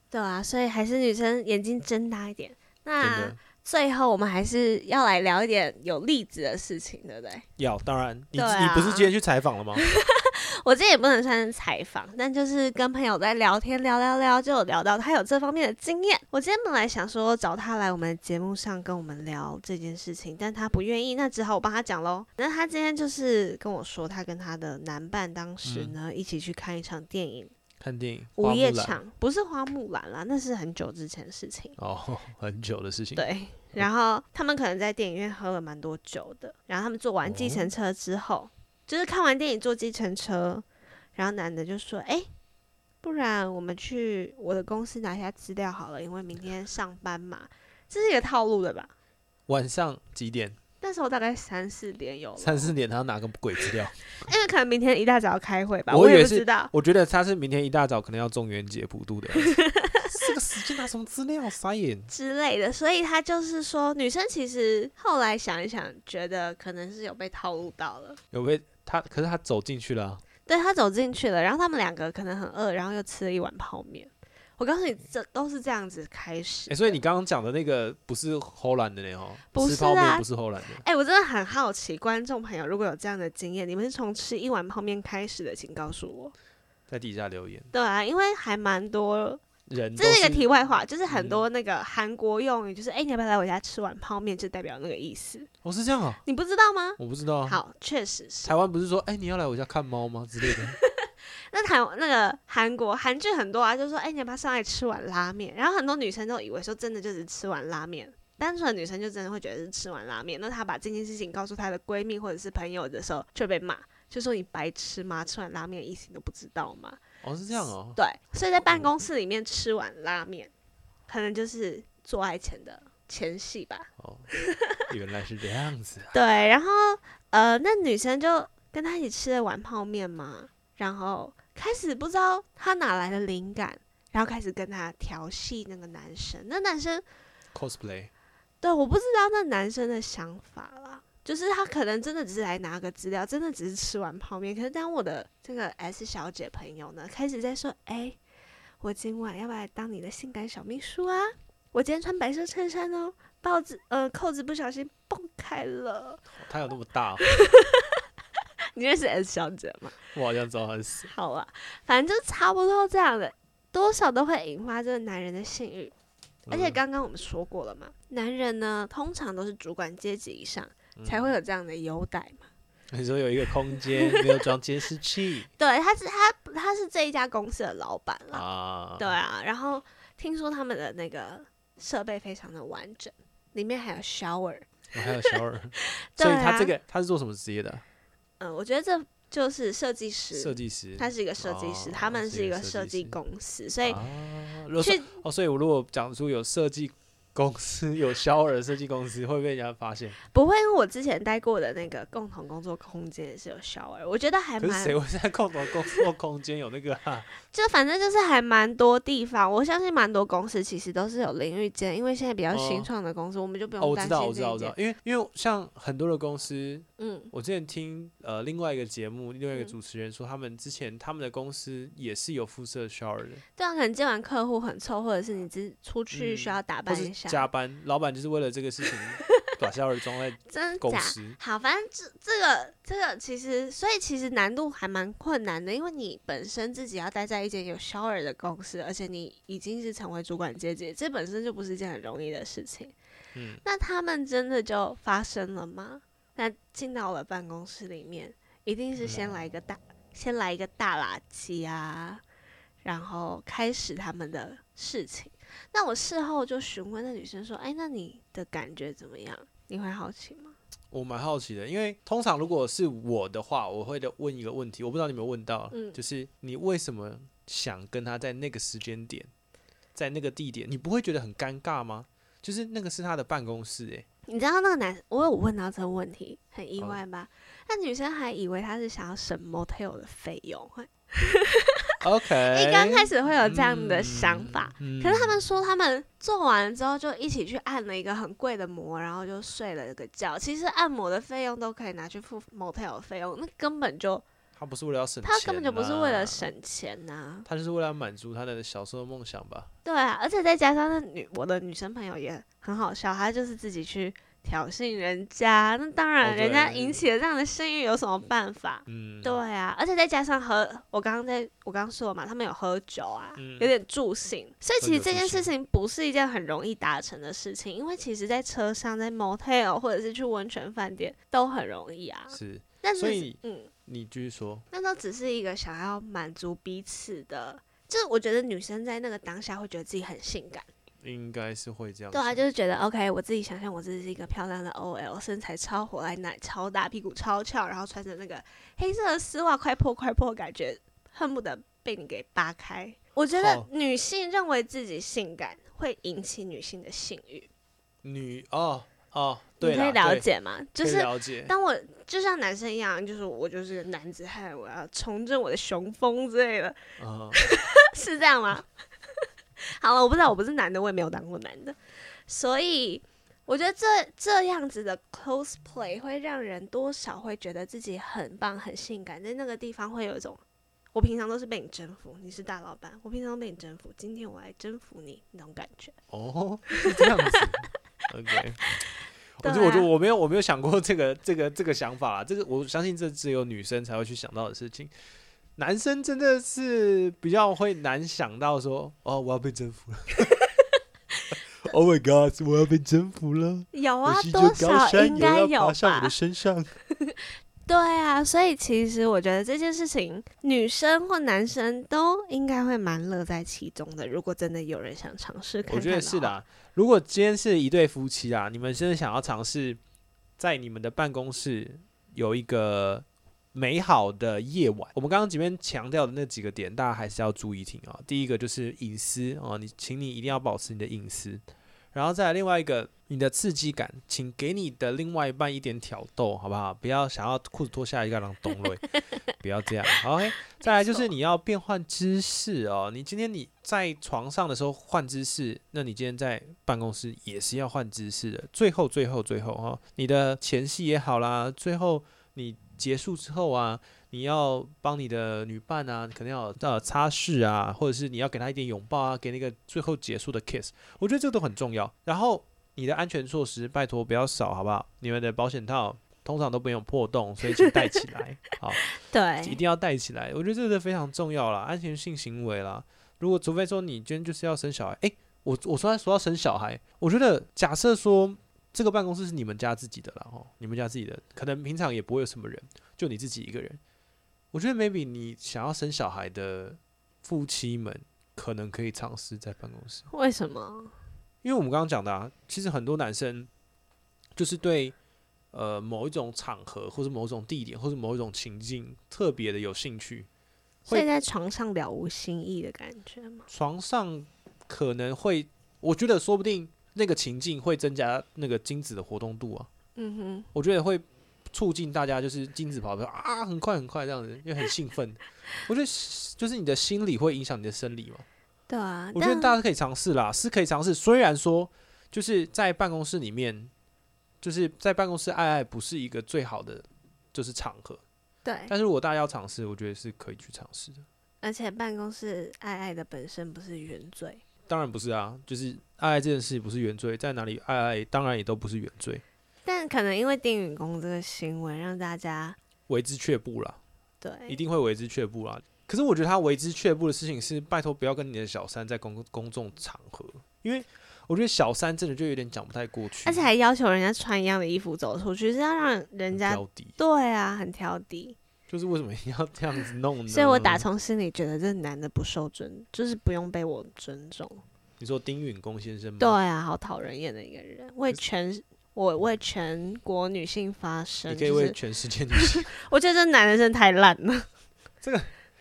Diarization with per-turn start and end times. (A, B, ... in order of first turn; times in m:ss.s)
0:00.1-0:07.4 A
0:03.0-0:03.4 B
0:07.6-0:09.8 B
0:08.3-0:09.1 A
0:09.8-0:27.5 A
0:25.6-0:25.9 B
0:27.8-0:29.0 B
0:28.4-0:31.8 A
0:31.8-0:33.2 B
0:33.2-0:40.6 A
0:37.2-0:37.7 B
0:41.2-0:42.3 A
0:43.0-0:48.9 A
0:49.5-0:50.6 B
0:50.8-0:52.7 A
0:52.4-0:54.0 B
0:54.2-0:56.7 A
0:55.9-1:02.1 B
0:59.3-1:00.2 A
1:02.1-1:08.2 A
1:08.3-1:10.2 B
1:10.4-1:17.0 A
1:16.7-1:20.8 B
1:19.5-1:20.2 A
1:20.8-1:26.3 A
1:26.9-1:27.7 B
1:27.7-1:29.4 A
1:29.7-1:30.5 B
1:30.0-1:35.5 A
1:31.1-1:31.4 B
1:35.6-1:36.2 B
1:36.2-1:38.5 A
1:37.0-1:37.6 B
1:38.4-1:40.8 B
1:40.5-1:57.0 A
1:57.2-1:58.0 B
1:57.9-2:00.5 A
2:01.1-2:04.9 A
2:04.0-2:04.3 B
2:04.9-2:06.1 B
2:06.1-2:17.0 A
2:17.5-2:18.1 B
2:18.6-2:28.2 A
2:28.8-2:36.2 A
2:36.3-2:37.2 B
2:37.2-2:38.0 A
2:38.7-2:40.0 A
2:40.1-2:41.1 B
2:41.1-2:45.9 A
2:46.5-2:46.8 B
2:46.5-2:52.5 A
2:51.0-2:51.3 B
2:52.9-2:55.5 B
2:54.0-2:54.2 A
2:55.6-2:58.4 A
2:58.3-2:59.1 B
2:59.0-3:05.4 A
3:04.9-3:07.8 B
3:06.0-3:06.7 A
3:08.4-3:14.0 A
3:10.3-3:13.2 B
3:13.8-3:20.2 B
3:14.8-3:15.1 A
3:20.3-3:25.0 A
3:24.6-3:27.3 B
3:27.5-3:34.7 A
3:32.5-3:32.9 B
3:33.8-3:43.4 B
3:37.0-3:37.3 A
3:43.6-3:47.5 A
3:46.1-3:51.4 B
3:50.5-4:02.9 A
4:03.3-4:03.6 B
4:03.6-4:12.2 A
4:09.0-4:09.3 B
4:12.8-4:20.6 A
4:20.9-4:29.3 B
4:25.7-4:26.0 A
4:29.9-4:34.0 B
4:34.3-4:54.2 A
4:42.0-4:45.4 B
4:54.6-4:56.5 B
4:55.2-4:57.4 A
4:57.4-4:59.7 B
4:59.8-5:23.7 A
5:06.2-5:07.0 B
5:08.9-5:09.4 B
5:13.4-5:13.7 B
5:14.8-5:15.5 B
5:22.3-5:24.6 B
5:24.7-5:30.7 A
5:31.0-5:32.4 B
5:32.1-5:47.5 A
5:43.3-5:43.6 B
5:48.0-5:50.2 B
5:49.6-5:56.8 A
5:50.8-5:51.5 B
5:57.0-5:57.4 B
5:57.3-5:58.7 A
5:59.6-6:01.8 A
6:02.3-6:10.4 A
6:10.9-6:15.9 A
6:16.1-6:18.6 B
6:16.7-6:17.4 A
6:19.4-6:24.9 B
6:19.4-6:19.9 A
6:25.6-6:30.3 B
6:31.6-6:36.7 B
6:33.7-6:36.1 A
6:37.0-6:46.4 A
6:45.7-6:49.8 B
6:50.4-7:01.4 B
7:01.9-7:08.9 B
7:09.4-7:53.8 B
7:10.6-7:11.1 A
7:37.5-7:37.9 A
7:39.0-7:39.6 A
7:54.5-8:00.1 B
8:00.1-8:00.9 A
8:01.4-8:03.5 B
8:04.4-8:05.0 B
8:05.5-8:10.3 B
8:10.9-8:13.5 A
8:13.5-8:19.7 B
8:20.0-8:20.5 A
8:20.5-8:28.2 B
8:28.7-8:29.6 A
8:29.1-8:33.7 B
8:34.4-8:38.0 B
8:38.4-8:38.7 A
8:38.7-8:41.0 B
8:41.4-8:44.4 A
8:44.7-8:49.2 B
8:49.6-8:52.6 A
8:52.9-8:53.8 B
8:54.2-8:54.6 A
8:54.5-9:03.5 B
9:03.2-9:08.4 A
9:06.3-9:07.0 B
9:08.7-9:10.8 B
9:10.3-9:14.6 A
9:15.0-9:16.4 B
9:16.2-9:21.8 A
9:21.3-9:22.7 B
9:22.3-9:24.4 A
9:25.0-9:25.3 B